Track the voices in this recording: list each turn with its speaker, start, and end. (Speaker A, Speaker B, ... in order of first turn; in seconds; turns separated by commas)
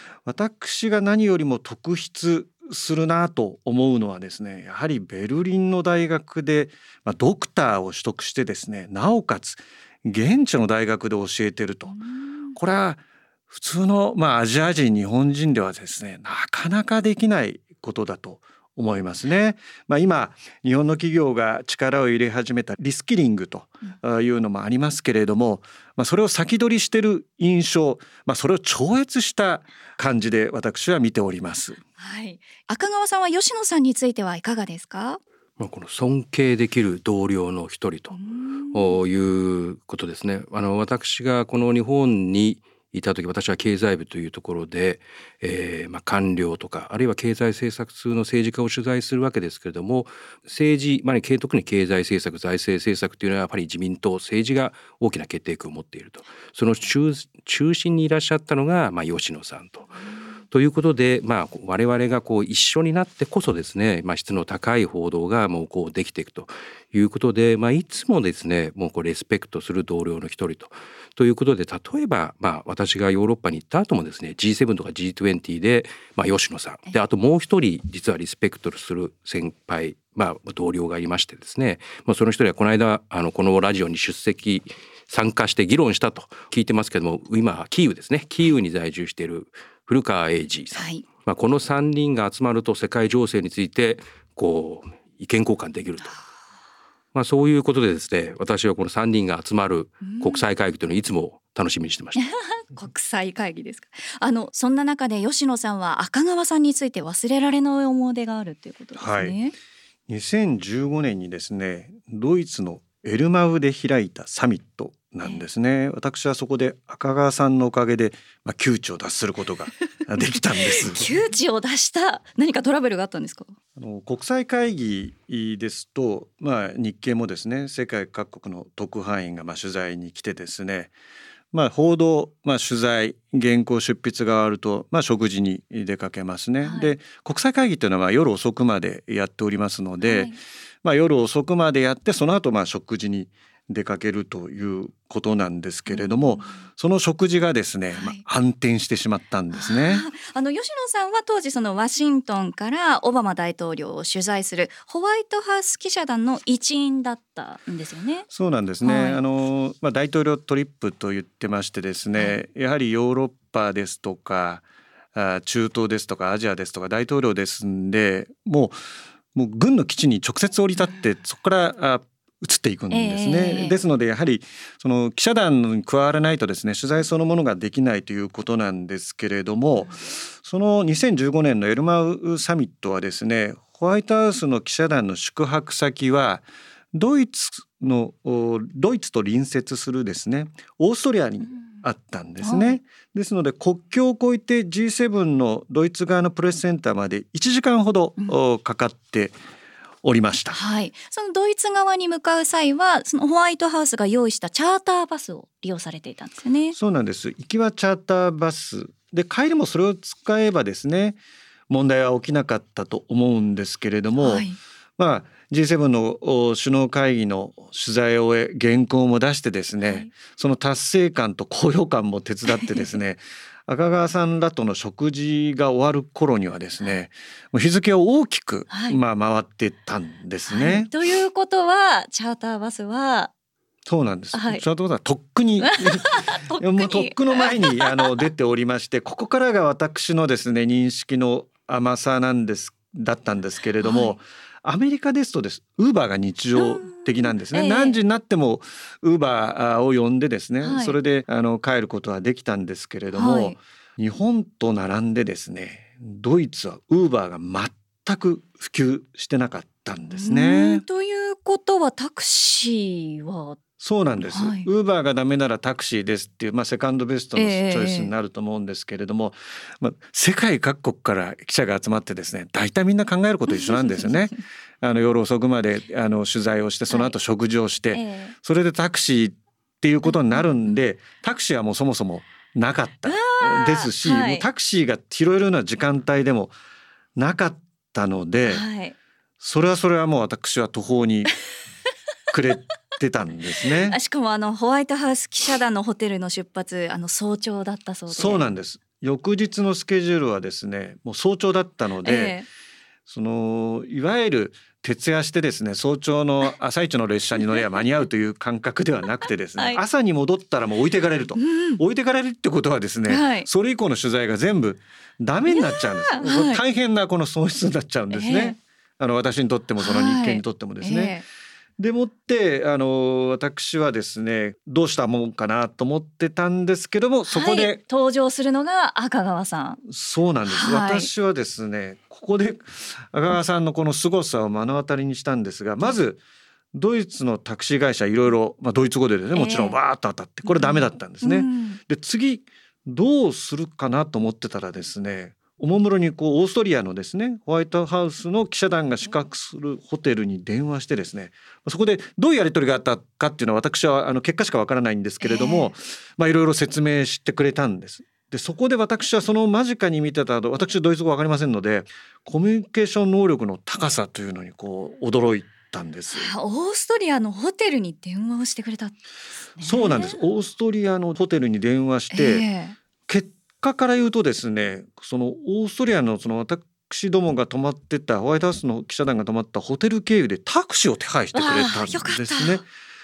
Speaker A: 0.2-11.9, Speaker B: 11.9-12.5, Speaker A: 12.5-31.8, Speaker B: 32.0-35.2, Speaker C: 35.6-38.2, Speaker B: 38.1-39.0, Speaker C: 38.7-59.9, Speaker C: 60.5-96.2, Speaker B: 90.7-91.0, Speaker C: 97.1-102.2, Speaker B: 100.0-100.4, Speaker B: 102.2-109.5, Speaker A: 109.0-109.3, Speaker A: 110.1-121.1, Speaker B: 120.7-123.5, Speaker A: 123.8-130.9, Speaker A: 131.5-140.3, Speaker B: 136.6-136.9, Speaker B: 140.0-140.4, Speaker A: 140.8-150.1, Speaker B: 145.9-146.6, Speaker B: 147.9-148.2, Speaker B: 149.5-158.2, Speaker A: 158.3-164.6, Speaker B: 158.8-159.2, Speaker A: 165.1-168.8, Speaker A: 169.3-199.3, Speaker B: 172.9-173.8, Speaker B: 192.4-192.8, Speaker A: 200.0-200.6, Speaker B: 200.5-206.8, Speaker A: 206.7-211.2, Speaker A: 211.7-214.5, Speaker B: 214.2-214.6, Speaker A: 215.0-230.9, Speaker B: 219.8-220.1, Speaker B: 228.7-229.0, Speaker B: 230.5-233.3, Speaker A: 233.8-260.8, Speaker B: 234.3-234.6, Speaker B: 235.6-238.0, Speaker B: 243.8-244.1, Speaker B: 246.6-248.0, Speaker B: 250.6-250.9, Speaker B: 253.1-253.6, Speaker B: 260.1-263.6, Speaker A: 263.8-286.5, Speaker B: 264.3-264.7, Speaker B: 267.4-268.1, Speaker B: 277.9-278.3, Speaker B: 280.1-280.4, Speaker B: 283.1-284.4, Speaker A: 287.1-288.6, Speaker B: 288.4-288.9, Speaker A: 289.4-291.4, Speaker A: 292.3-294.0, Speaker B: 293.8-298.4, Speaker A: 298.1-302.4, Speaker B: 302.0-302.5, Speaker A: 303.1-321.2, Speaker B: 311.4-311.8, Speaker B: 313.1-313.5, Speaker B: 315.5-316.6, Speaker B: 318.1-318.6, Speaker B: 319.8-321.2, Speaker A: 321.8-327.8, Speaker B: 327.3-329.8, Speaker A: 329.8-336.2, Speaker B: 330.4-331.1, Speaker A: 336.7-366.3, Speaker B: 339.3-339.8, Speaker B: 340.5-341.8, Speaker B: 355.2-355.7, Speaker B: 366.1-369.0, Speaker B: 369.6-370.1, Speaker A: 369.6-372.4, Speaker B: 372.1-372.8, Speaker A: 373.1-382.6, Speaker B: 381.3-382.6